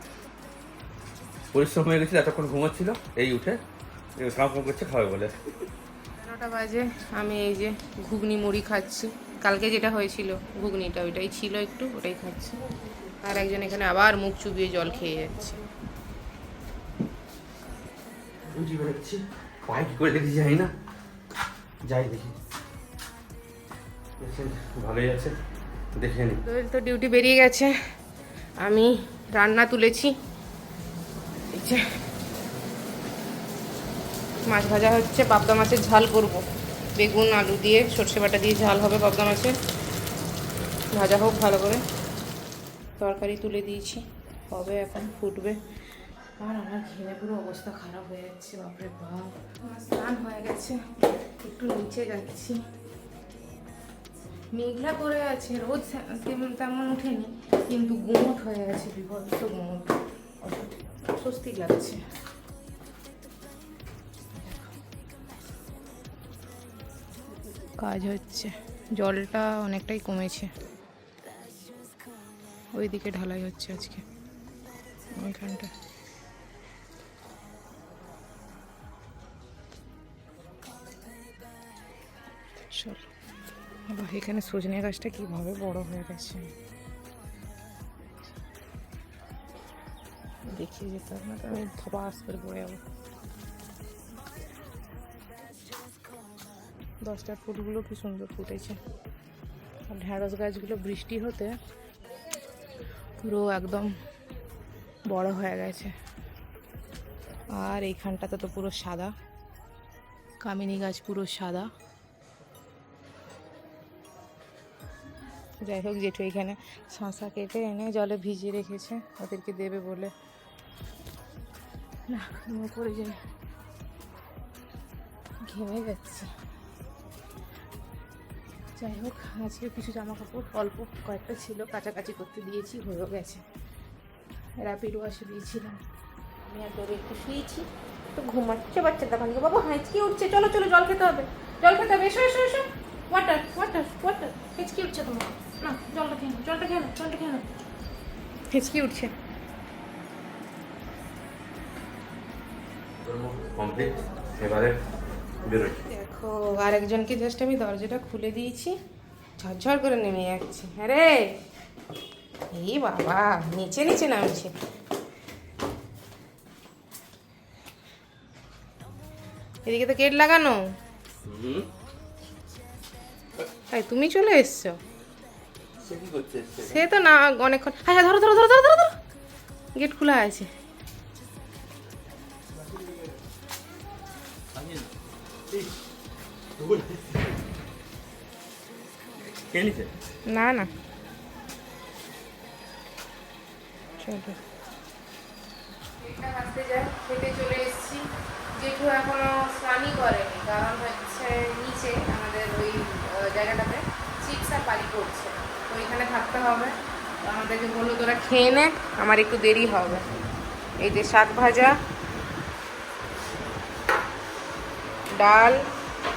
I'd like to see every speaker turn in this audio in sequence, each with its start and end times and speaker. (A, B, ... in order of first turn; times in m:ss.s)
0:01.5-0:03.6 A
0:04.2-0:05.5 A
0:06.2-0:12.6 B
0:13.2-0:15.6 B
0:18.5-0:20.7 A
0:21.8-0:22.3 A
0:24.2-0:25.3 A
0:26.0-0:26.4 A
0:26.4-0:27.7 B
0:28.6-0:30.1 B
0:31.5-0:31.8 B
0:34.5-0:36.4 B
0:37.0-0:39.5 B
0:40.9-0:41.8 B
0:43.0-0:45.6 B
0:46.4-0:50.8 B
0:51.4-0:52.6 B
0:54.5-1:02.0 B
1:07.8-1:10.5 B
1:12.7-1:14.0 B
1:15.2-1:15.7 B
1:22.7-1:23.0 B
1:23.9-1:26.5 B
1:30.5-1:32.8 B
1:37.0-1:38.8 B
1:39.9-1:41.6 B
1:43.2-1:43.9 B
1:45.1-1:45.9 B
1:47.5-1:49.1 B
1:50.4-1:51.7 B
1:55.6-2:00.1 B
2:02.1-2:03.2 B
2:05.4-2:06.3 B
2:08.8-2:13.4 B
2:14.6-2:15.8 B
2:16.4-2:27.4 B
2:28.5-2:29.1 B
2:33.0-2:34.8 A
2:35.4-2:35.8 A
2:35.8-2:38.8 B
2:39.4-2:41.2 B
2:42.5-2:44.5 B
2:49.6-2:50.6 B
2:51.2-2:51.7 A
2:53.7-2:54.8 B
2:55.8-2:56.8 A
2:56.6-2:58.9 B
2:59.7-3:00.5 B
3:04.5-3:04.9 A
3:06.6-3:07.3 A
3:09.4-3:09.9 A
3:10.3-3:10.7 B
3:14.0-3:14.4 B
3:16.0-3:18.0 B
3:18.5-3:30.0 B
3:30.8-3:31.8 B
3:35.2-3:35.6 B